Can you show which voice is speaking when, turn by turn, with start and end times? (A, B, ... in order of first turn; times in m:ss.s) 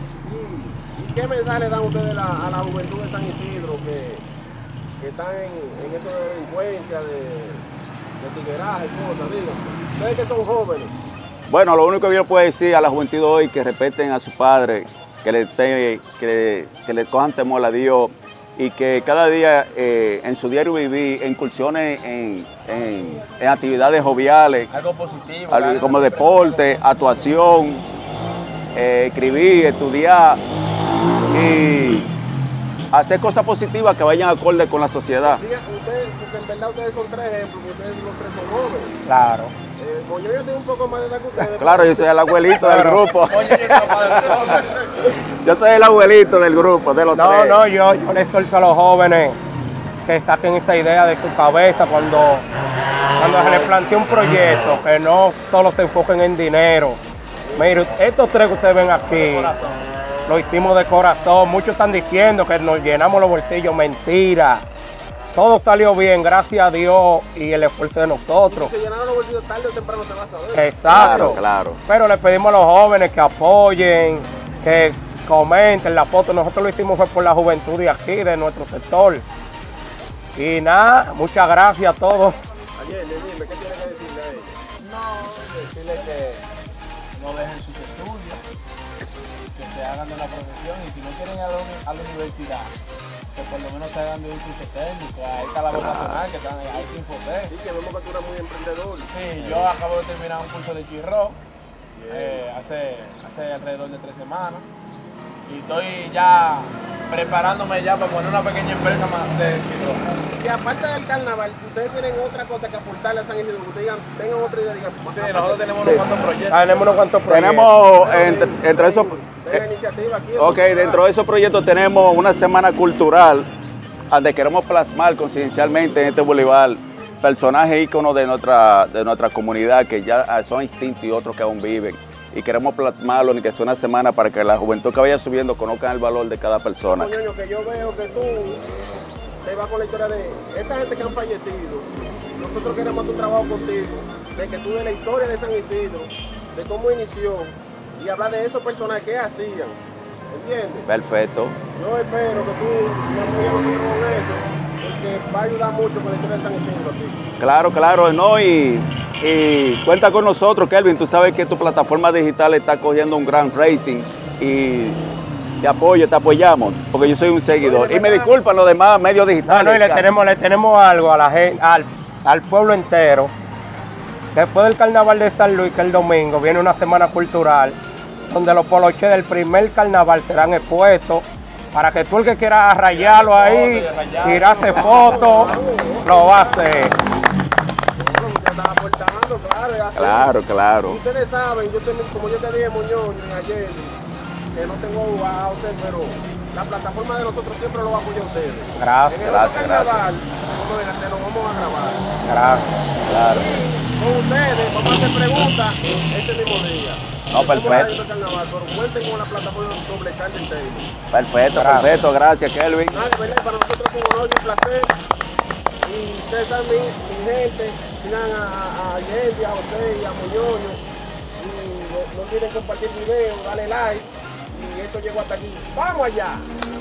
0:00.2-0:04.2 A
0:05.0-0:07.6 A
0:08.2-0:10.9 A
0:11.5-0:24.7 B
0:24.7-0:26.8 C
0:25.5-0:27.8 B
0:28.8-0:30.4 B
0:31.3-0:32.1 B
0:32.9-0:35.4 B
0:35.2-0:39.0 A
0:39.1-0:39.5 D
0:39.8-0:42.1 A
0:41.4-0:44.5 B
0:42.6-0:43.0 D
0:43.3-0:44.7 C
0:43.8-0:45.1 A
0:45.4-0:47.6 B
0:47.1-0:49.4 D
0:50.1-0:52.5 D
0:53.2-0:57.0 D
0:57.5-0:57.8 A
0:57.5-0:59.5 D
0:59.1-0:59.9 C
1:00.3-1:04.6 D
1:05.4-1:08.7 D
1:08.5-1:11.4 A
1:10.6-1:19.2 D
1:10.9-1:11.8 B
1:20.4-1:22.4 D
1:22.8-1:24.6 A
1:24.8-1:26.4 C
1:27.1-1:28.4 C
1:29.5-1:32.7 C
1:33.3-1:37.5 C
1:35.7-1:36.2 B
1:37.5-1:39.1 A
1:39.1-1:41.4 C
1:39.4-1:39.7 B
1:42.0-1:42.4 A
1:42.1-1:44.6 C
1:45.5-1:50.1 C
1:50.3-1:56.0 A
1:55.1-1:57.0 C
1:56.5-1:57.7 D
1:57.3-1:59.6 B
1:57.9-2:01.0 A
2:00.4-2:03.5 B
2:04.1-2:17.2 B
2:16.8-2:18.6 A
2:19.4-2:29.8 A
2:30.3-2:30.9 A
2:30.9-2:31.6 B
2:31.8-2:37.2 A
2:37.4-2:45.0 B
2:45.6-2:50.1 B
2:47.6-2:48.4 A
2:49.5-2:53.3 D
2:54.3-3:07.0 D
3:02.9-3:05.5 C
3:04.2-3:07.0 A
3:08.0-3:10.3 A
3:10.0-3:11.0 B
3:10.9-3:14.0 A
3:14.5-3:22.0 A
3:18.8-3:19.2 D
3:19.2-3:20.1 B
3:22.2-3:22.7 D
3:23.1-3:23.6 B
3:23.3-3:30.9 A
3:27.3-3:27.9 B
3:31.1-3:33.1 B
3:31.5-3:32.0 D
3:32.9-3:34.9 A
3:35.8-3:40.8 A
3:41.4-3:46.5 A